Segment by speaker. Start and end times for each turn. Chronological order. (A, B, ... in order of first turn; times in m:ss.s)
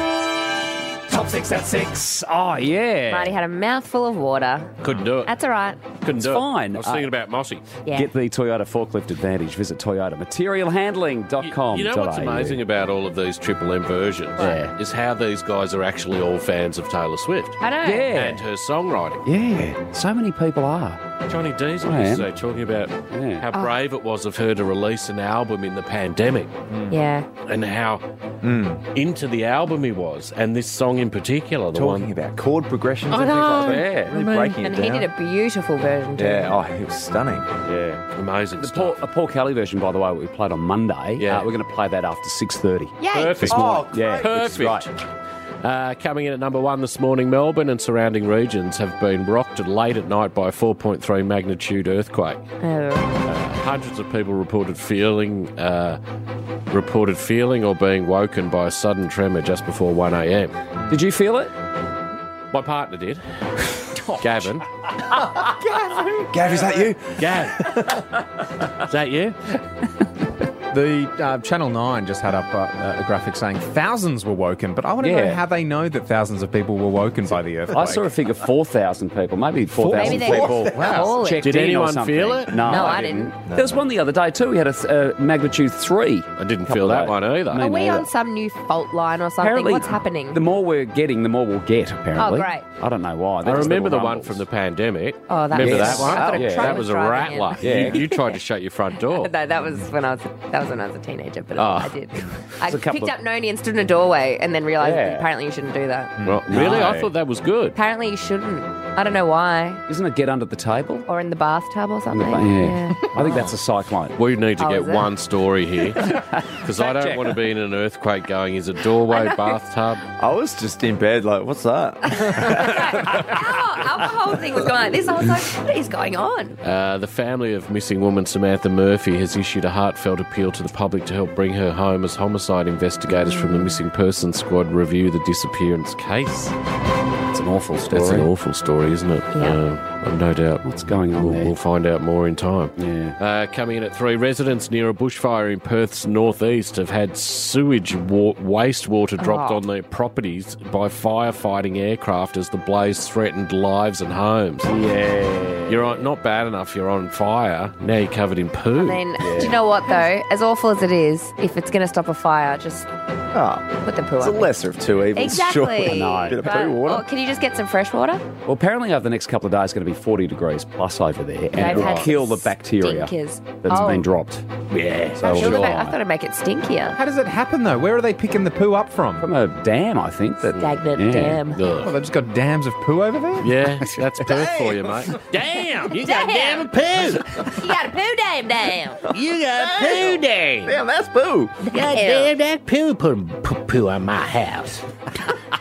0:01.1-0:03.4 A
0:03.1-0:04.7 B
0:04.8-0:05.3 C
0:05.2-0:05.8 B
0:06.0-0:07.8 C
0:06.2-0:07.1 A
0:07.8-0:08.1 B
0:07.9-0:12.6 A
0:11.4-0:19.3 C
0:14.4-0:14.7 A
0:17.6-0:18.1 B
0:17.8-0:18.4 A
0:19.3-0:21.0 A
0:21.2-0:26.5 C
0:21.8-0:22.3 A
0:23.1-0:23.5 A
0:26.9-0:27.3 B
0:27.4-0:28.0 C
0:28.4-0:28.8 D
0:28.9-0:32.1 C
0:31.7-0:35.1 D
0:33.1-0:34.6 C
0:33.6-0:34.2 A
0:34.6-0:36.6 B
0:36.2-0:37.5 D
0:37.7-0:38.0 A
0:38.2-0:39.0 C
0:38.6-0:44.9 A
0:41.2-0:41.6 C
0:43.0-0:43.6 B
0:43.1-0:44.9 C
0:43.5-0:44.6 D
0:45.6-0:52.4 C
0:52.6-0:53.1 B
0:53.2-0:56.0 C
0:56.7-1:00.6 C
1:00.9-1:01.5 A
1:02.5-1:03.2 C
1:04.0-1:04.2 A
1:04.2-1:04.7 C
1:05.4-1:07.0 E
1:06.4-1:07.0 D
1:07.2-1:09.6 C
1:10.7-1:18.1 E
1:15.0-1:15.4 A
1:17.3-1:28.1 A
1:19.7-1:21.2 E
1:20.0-1:21.6 B
1:21.4-1:22.9 C
1:22.6-1:23.3 B
1:23.4-1:23.8 D
1:26.4-1:27.6 C
1:27.6-1:30.4 B
1:29.4-1:34.4 A
1:32.2-1:32.7 B
1:33.4-1:39.3 C
1:35.3-1:38.3 B
1:35.6-1:36.8 A
1:36.1-1:36.4 D
1:37.6-1:38.0 A
1:39.0-1:46.1 B
1:41.6-1:42.0 C
1:42.6-1:43.2 A
1:44.8-1:45.3 A
1:46.2-1:46.9 E
1:46.2-1:47.8 C
1:46.5-1:47.1 A
1:47.8-1:49.8 B
1:49.9-1:51.1 A
1:51.1-1:53.2 B
1:52.1-1:54.2 A
1:54.2-2:00.0 C
1:54.6-1:55.1 B
1:56.8-1:57.3 A
1:59.1-1:59.6 B
2:00.2-2:02.9 D
2:02.1-2:06.6 B
2:06.6-2:16.6 C
2:13.1-2:13.8 B
2:17.3-2:18.3 A
2:17.9-2:34.8 C
2:19.3-2:19.6 B
2:20.6-2:21.6 A
2:22.8-2:23.2 A
2:29.2-2:29.6 B
2:34.7-2:36.0 A
2:35.7-2:39.2 C
2:38.8-2:42.9 B
2:39.2-2:39.6 A
2:43.3-2:43.7 D
2:43.8-2:44.5 B
2:44.2-2:47.1 D
2:45.1-2:48.2 B
2:45.9-2:46.5 A
2:48.5-2:56.0 A
2:51.5-2:54.1 B
2:51.6-2:52.1 C
2:55.2-2:57.0 B
2:56.9-2:59.3 E
2:59.2-3:01.4 A
3:00.5-3:00.8 C
3:00.6-3:01.6 B
3:01.4-3:01.9 C
3:01.8-3:04.1 E
3:03.4-3:07.6 C
3:04.3-3:05.1 D
3:05.9-3:06.7 B
3:07.4-3:09.0 B
3:09.1-3:10.8 C
3:09.5-3:11.7 D
3:11.7-3:12.3 B
3:11.7-3:14.8 C